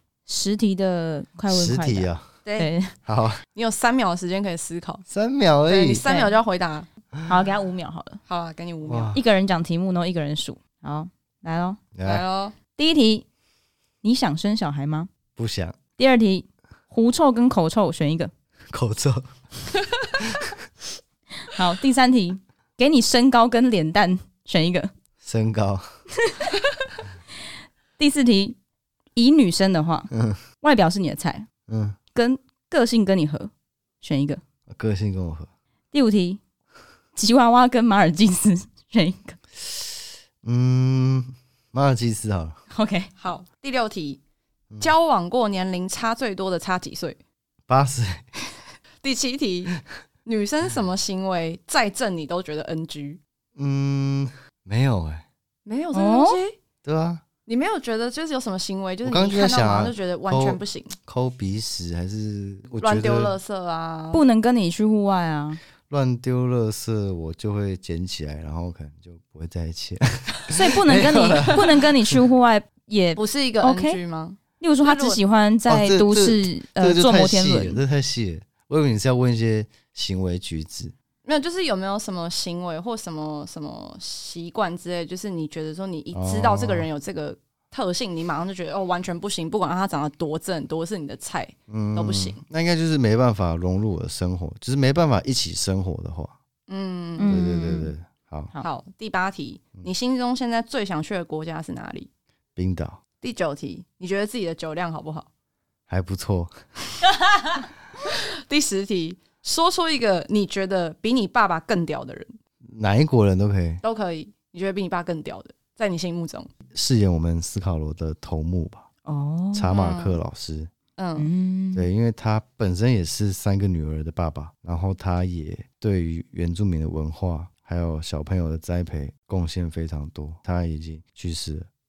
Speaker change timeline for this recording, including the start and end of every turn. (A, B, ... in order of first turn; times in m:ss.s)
0:00.3-0:02.9 A
0:01.5-0:02.3 B
0:02.4-0:02.7 C
0:03.0-0:03.4 B
0:03.6-0:05.0 C
0:05.1-0:06.0 B
0:05.7-0:06.9 C
0:06.1-0:06.4 A
0:07.3-0:08.2 A
0:08.3-0:09.2 C
0:08.9-0:09.2 B
0:09.1-0:11.8 A
0:12.0-0:12.2 B
0:12.0-0:12.6 C
0:12.8-0:13.2 A
0:14.0-0:15.1 A
0:15.4-0:15.8 B
0:16.0-0:18.3 A
0:18.7-0:19.3 B
0:20.2-0:20.6 B
0:21.5-0:24.9 A
0:25.2-0:25.9 B
0:28.0-0:28.6 A
0:29.2-0:31.5 A
0:30.1-0:30.4 B
0:31.7-0:32.0 B
0:32.2-0:34.4 A
0:34.7-0:35.5 B
0:35.9-0:36.4 A
0:37.2-0:39.4 A
0:40.4-0:42.6 B
0:42.7-0:43.1 A
0:43.2-0:44.2 C
0:44.8-0:47.2 C
0:47.7-0:48.3 B
0:49.0-0:49.8 C
0:50.3-0:53.2 C
0:53.6-0:55.2 B
0:55.7-0:56.6 C
0:55.9-0:56.4 A
0:56.8-0:57.2 B
0:57.5-1:01.0 C
0:59.0-1:03.3 B
1:02.8-1:04.2 C
1:04.1-1:05.6 A
1:05.9-1:12.2 B
1:10.5-1:14.0 A
1:13.2-1:15.2 C
1:14.6-1:17.8 A
1:15.7-1:20.9 B
1:21.2-1:32.4 C
1:26.1-1:26.9 B
1:31.7-1:36.4 B
1:36.7-1:37.5 C
1:37.2-1:37.9 A
1:37.3-1:38.5 B
1:38.6-1:42.1 C
1:42.6-1:43.0 B
1:43.2-1:45.3 C
1:45.9-1:46.6 B
1:48.1-1:52.4 C
1:52.7-1:53.8 B
1:53.8-1:56.5 C
1:56.7-1:58.9 B
1:59.1-1:59.7 A
1:59.5-2:00.7 B
1:59.7-2:00.2 C
2:01.0-2:01.3 C
2:01.2-2:01.9 A
2:01.7-2:11.7 B